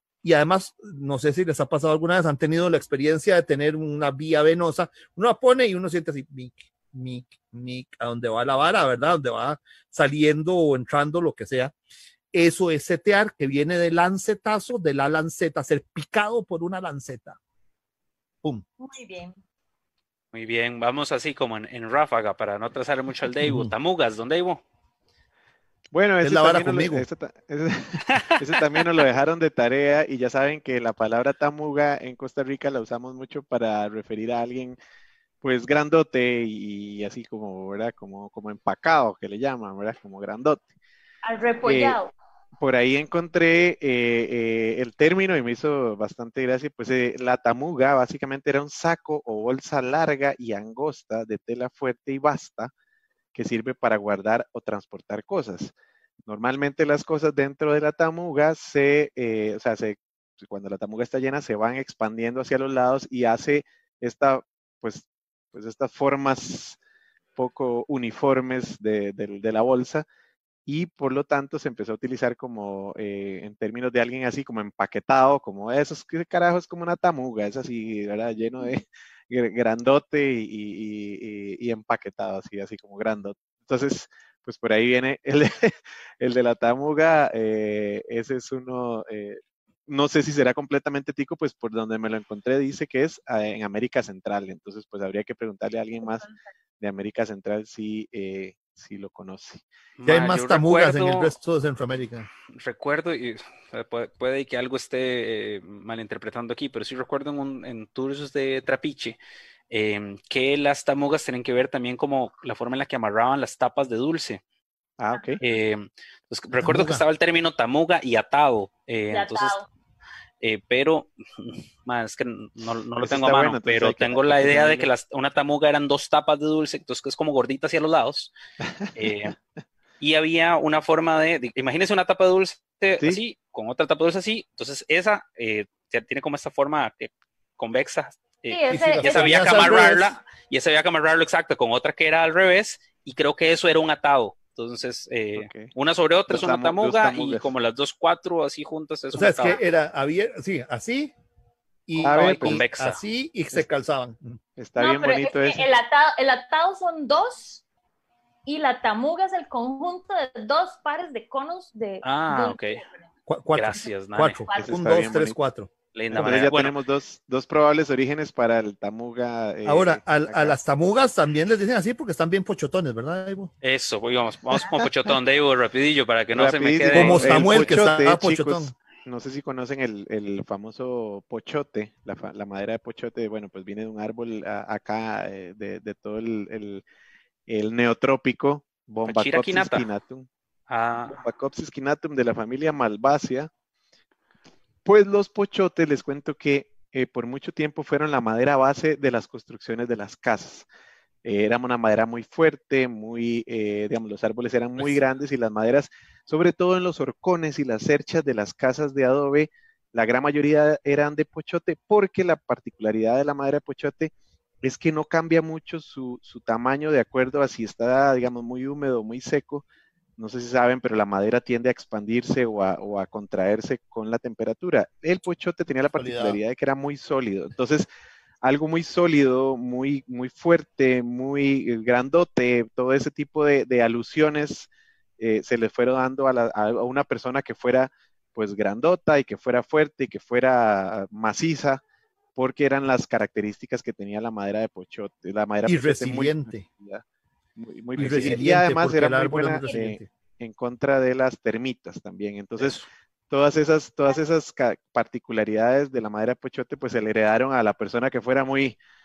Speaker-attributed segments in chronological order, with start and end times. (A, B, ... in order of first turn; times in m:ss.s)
0:00.2-0:11.7 A
0:12.3-0:17.4 A
0:18.8-0:19.4 B
0:20.3-0:24.6 C
0:23.4-0:23.7 A
0:25.9-0:34.8 D
0:26.2-0:27.1 A
0:35.4-0:40.7 D
0:41.2-0:42.1 B
0:41.6-0:42.0 D
0:42.6-0:52.7 D
0:53.3-0:55.7 D
0:56.2-1:06.8 D
1:07.4-1:10.0 D
1:10.6-1:36.3 D
1:36.0-1:36.4 B
1:36.8-1:39.6 D
1:40.0-1:41.3 C
1:40.0-1:42.3 A
1:42.5-1:49.2 C
1:49.7-1:54.4 C
1:55.0-1:55.4 D
1:55.1-1:55.4 B
1:55.4-1:59.6 C
1:56.6-1:57.0 A
1:59.1-1:59.7 B
2:00.4-2:08.3 C
2:03.0-2:04.9 D
2:08.6-2:09.1 D
2:08.9-2:09.3 C
2:10.0-2:29.6 C
2:18.5-2:19.9 B
2:18.7-2:20.2 A
2:25.3-2:25.7 D
2:26.3-2:27.5 D
2:29.1-2:31.1 A
2:31.9-2:34.4 A
2:32.0-2:33.0 C
2:32.0-2:32.6 D
2:34.6-2:35.7 D
2:34.8-2:37.6 B
2:38.4-2:43.1 B
2:42.0-2:42.8 C
2:43.3-2:46.4 A
2:43.5-2:44.4 C
2:44.5-2:44.8 B
2:44.5-2:45.4 D
2:45.9-2:46.8 C
2:46.1-2:50.6 D
2:49.6-2:53.5 A
2:53.6-2:57.7 C
2:56.3-3:06.8 D
2:56.9-2:58.7 A
3:07.5-3:10.3 D
3:09.1-3:09.9 C
3:10.7-3:11.2 C
3:11.1-3:13.5 D
3:14.8-3:20.6 D
3:21.2-3:34.1 D
3:34.6-3:39.6 D
3:40.2-3:47.9 D
3:46.0-3:46.4 A
3:48.4-4:01.8 D
4:02.4-4:07.0 D
4:05.6-4:06.6 A
4:07.6-4:12.8 D
4:08.0-4:08.4 C
4:08.0-4:10.1 A
4:12.6-4:12.9 C
4:13.3-4:18.8 D